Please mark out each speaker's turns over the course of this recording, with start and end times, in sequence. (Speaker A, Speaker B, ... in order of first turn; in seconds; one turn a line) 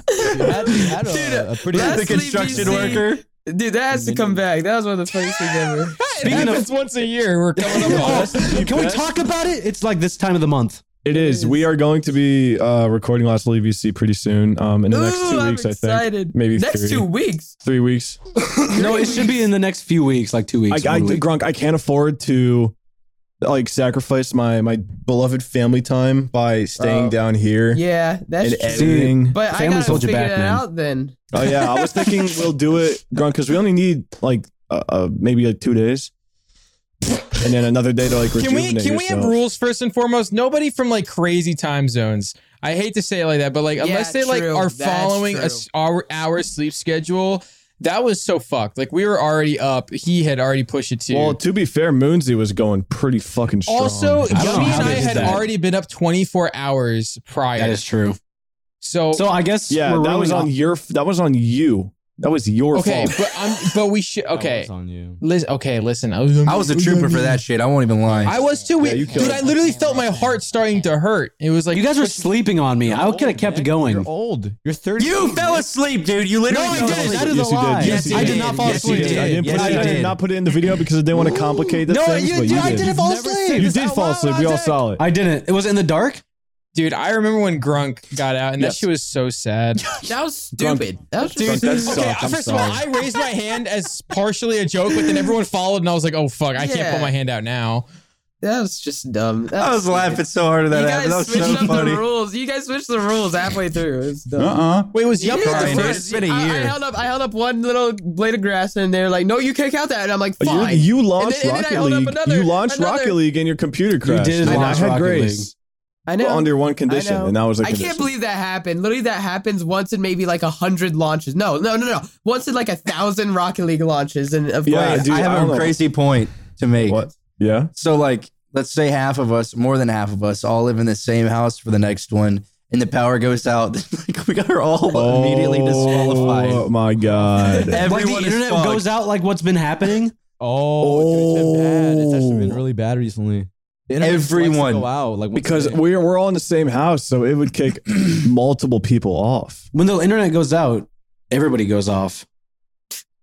Speaker A: 0.1-6.5
Speaker B: 0.3-3.0
Speaker C: 1.7-3.2
Speaker B: 4.0-4.4
Speaker D: 6.0-8.5
Speaker E: 6.2-6.7
Speaker E: 7.6-10.8
Speaker F: 7.8-9.1
Speaker F: 11.0-17.1
Speaker A: 11.1-11.6
Speaker A: 14.9-17.5
Speaker F: 17.6-18.2
Speaker A: 18.7-19.4
Speaker E: 18.7-21.3
Speaker F: 20.7-22.7
Speaker F: 23.4-27.8
Speaker A: 26.8-27.2
Speaker A: 27.7-32.1
Speaker F: 28.4-30.1
Speaker E: 28.6-30.6
Speaker F: 31.3-36.1
Speaker F: 37.4-39.4
Speaker D: 38.4-51.4
Speaker A: 43.8-45.6
Speaker F: 51.1-55.4
Speaker D: 53.7-57.8
Speaker E: 54.3-55.5
Speaker E: 57.6-58.2
Speaker D: 58.8-59.3
Speaker E: 59.1-60.5
Speaker F: 59.7-63.2
Speaker D: 62.7-67.4
Speaker B: 64.3-65.2
Speaker C: 66.5-68.4
Speaker B: 68.1-70.4
Speaker D: 68.2-72.3
Speaker F: 68.8-69.5
Speaker E: 71.7-74.1
Speaker B: 72.8-75.7
Speaker C: 75.0-80.2
Speaker E: 76.5-80.1
Speaker B: 76.6-77.2
Speaker F: 76.9-82.9
Speaker B: 77.8-80.1
Speaker E: 81.1-83.7
Speaker B: 82.4-84.9
Speaker F: 83.5-85.0
Speaker E: 85.0-86.2
Speaker D: 86.7-89.9
Speaker F: 88.6-88.9
Speaker A: 90.0-92.2
Speaker F: 90.6-92.8
Speaker D: 91.4-97.8
Speaker A: 96.6-97.1
Speaker A: 98.4-104.6
Speaker C: 99.5-102.1
Speaker F: 101.4-101.8
Speaker F: 104.4-104.9
Speaker D: 104.9-106.1
Speaker A: 105.2-113.2
Speaker C: 105.3-106.8
Speaker F: 110.4-115.5
Speaker E: 114.0-115.5
Speaker A: 114.5-114.9
Speaker A: 116.1-125.2
Speaker F: 116.2-118.1
Speaker F: 124.7-125.8
Speaker C: 124.8-127.0
Speaker F: 126.8-127.7
Speaker C: 127.8-136.7
Speaker F: 134.9-137.8
Speaker B: 135.7-137.7
Speaker C: 137.7-138.9
Speaker E: 137.8-140.2
Speaker B: 140.4-145.8
Speaker F: 140.8-142.6
Speaker C: 144.0-144.9
Speaker F: 145.3-149.7
Speaker E: 149.7-152.3